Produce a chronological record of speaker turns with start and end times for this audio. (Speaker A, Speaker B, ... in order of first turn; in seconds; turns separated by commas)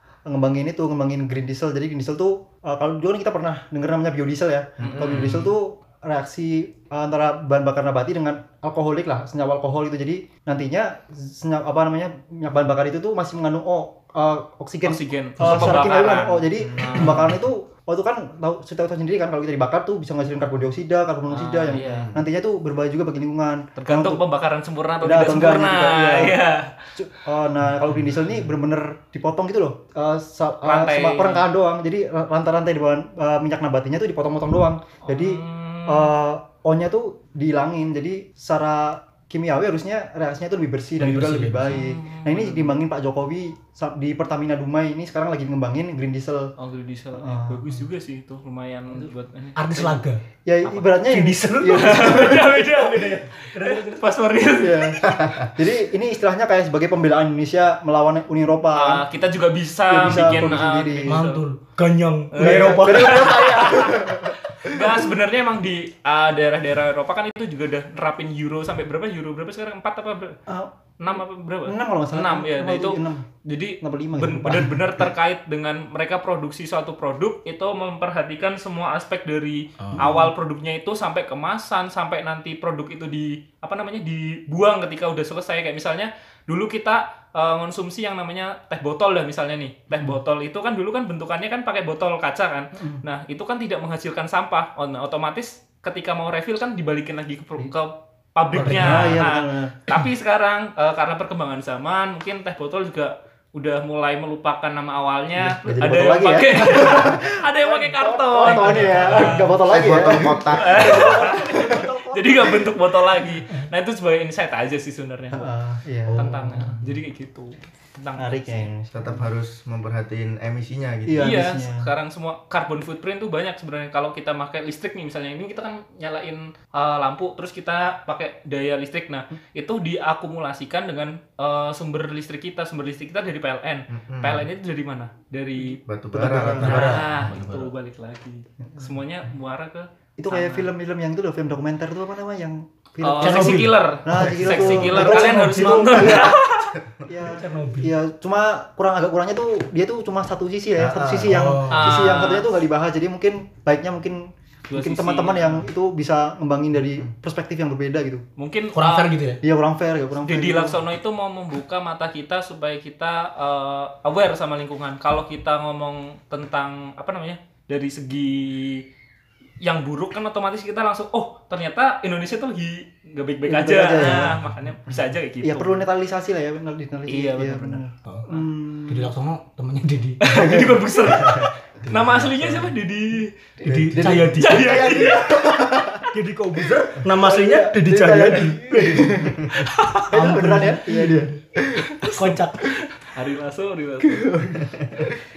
Speaker A: 0.2-24.2, Speaker B: 4.8-5.4, Speaker C: 4.8-5.5, Speaker C: 14.8-17.4, Speaker D: 15.4-15.9, Speaker C: 21.3-22.1, Speaker B: 21.7-22.2, Speaker C: 23.8-26.9, Speaker A: 25.0-26.4, Speaker A: 26.9-46.5, Speaker C: 30.6-31.4, Speaker C: 35.0-36.1, Speaker D: 41.0-41.8, Speaker C: 41.6-42.8, Speaker C: 46.6-50.0, Speaker A: 47.1-47.6, Speaker D: 49.5-50.2, Speaker A: 50.4-52.8, Speaker C: 50.6-50.9, Speaker D: 51.1-54.0, Speaker C: 51.7-55.1, Speaker A: 54.6-59.0, Speaker B: 55.0-55.5, Speaker C: 58.7-61.4, Speaker A: 59.9-61.2, Speaker D: 60.2-60.5, Speaker D: 61.0-63.4, Speaker C: 62.3-70.4, Speaker A: 62.4-65.1, Speaker B: 63.5-63.9, Speaker C: 71.0-109.6, Speaker A: 71.7-73.2, Speaker A: 73.8-74.8, Speaker D: 79.8-80.1, Speaker A: 80.0-80.3, Speaker A: 92.7-93.0, Speaker A: 98.5-100.0, Speaker D: 98.5-99.2, Speaker A: 105.4-112.1, Speaker D: 108.7-109.4, Speaker B: 109.7-111.3, Speaker C: 110.5-115.5, Speaker D: 111.0-112.1, Speaker A: 115.3-116.3, Speaker D: 116.0-116.8, Speaker C: 116.1-118.7, Speaker A: 118.2-119.2, Speaker B: 118.9-121.4, Speaker A: 121.1-121.9, Speaker C: 121.2-135.8, Speaker B: 133.9-134.5, Speaker B: 135.8-137.0, Speaker A: 136.1-137.1, Speaker D: 136.6-137.7, Speaker C: 136.6-140.7, Speaker A: 140.2-146.4, Speaker C: 143.0-146.7, Speaker D: 143.2-146.3, Speaker B: 146.8-147.1, Speaker A: 147.1-158.2, Speaker D: 147.2-147.9, Speaker B: 150.8-151.5, Speaker D: 151.2-152.0, Speaker C: 151.7-152.5, Speaker C: 154.7-155.7, Speaker C: 158.4-159.1, Speaker D: 158.7-159.4, Speaker A: 159.4-160.8, Speaker C: 160.2-168.8, Speaker C: 169.6-175.9, Speaker A: 173.5-174.3, Speaker D: 174.0-174.6, Speaker A: 175.4-179.1, Speaker C: 177.1-178.4, Speaker D: 178.9-180.6, Speaker C: 180.2-183.3, Speaker A: 180.3-180.7, Speaker D: 181.8-182.7, Speaker A: 183.6-186.0, Speaker B: 183.6-185.4, Speaker D: 183.7-185.0, Speaker C: 184.4-185.9, Speaker D: 186.1-191.4, Speaker A: 187.1-189.5, Speaker B: 188.8-189.6, Speaker A: 190.1-191.3, Speaker C: 191.7-194.5, Speaker D: 192.0-192.7, Speaker A: 194.0-195.1, Speaker B: 194.5-195.1